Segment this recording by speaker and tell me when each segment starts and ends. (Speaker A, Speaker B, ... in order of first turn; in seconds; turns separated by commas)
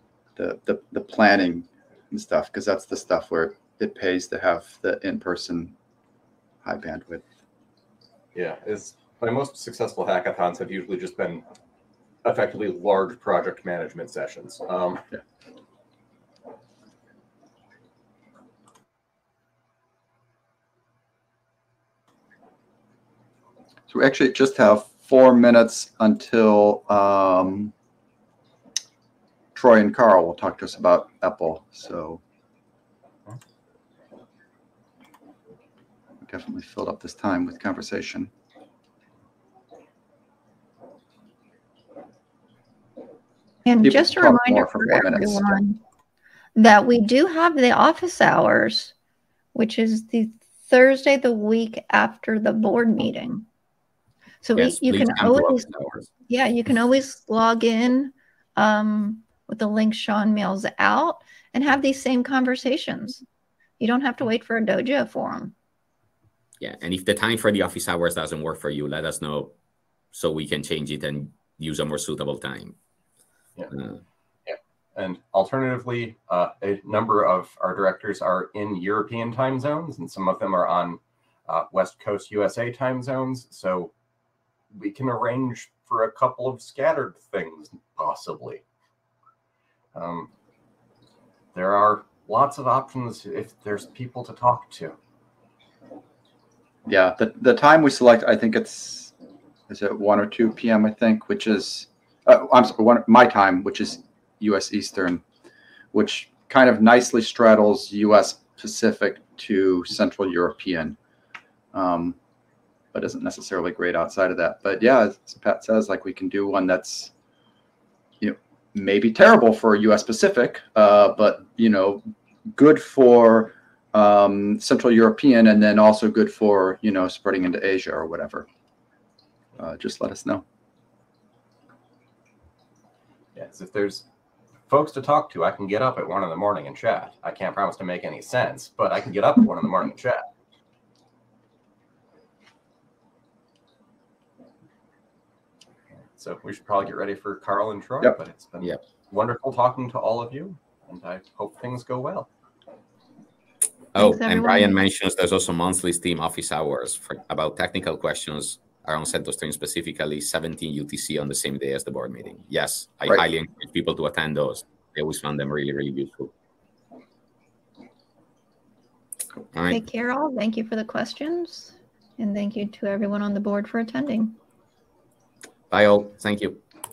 Speaker A: 0.3-5.7, Speaker A: 6.6-7.2, Speaker B: 8.3-11.4, Speaker B: 12.2-15.0, Speaker A: 23.9-27.7, Speaker A: 29.5-32.2, Speaker A: 36.2-38.3, Speaker C: 43.6-45.8, Speaker A: 43.8-45.6, Speaker C: 46.5-48.9, Speaker C: 49.5-53.5, Speaker C: 54.4-55.7, Speaker D: 54.5-56.1, Speaker C: 56.3-63.2, Speaker C: 63.8-65.5, Speaker D: 66.6-69.5, Speaker D: 70.1-72.8, Speaker D: 73.7-74.0, Speaker B: 74.5-83.9, Speaker B: 84.7-88.6, Speaker B: 89.9-90.3, Speaker B: 91.5-95.0, Speaker A: 96.8-99.1, Speaker A: 99.7-105.2, Speaker A: 105.9-111.0, Speaker A: 111.7-112.2, Speaker A: 112.9-117.1, Speaker A: 118.2-128.5, Speaker A: 129.6-130.4, Speaker B: 133.3-134.1, Speaker B: 134.7-140.2, Speaker B: 146.1-152.3, Speaker D: 153.9-166.3, Speaker C: 153.9-154.8, Speaker D: 169.5-169.8, Speaker C: 169.7-174.3, Speaker D: 175.7-176.6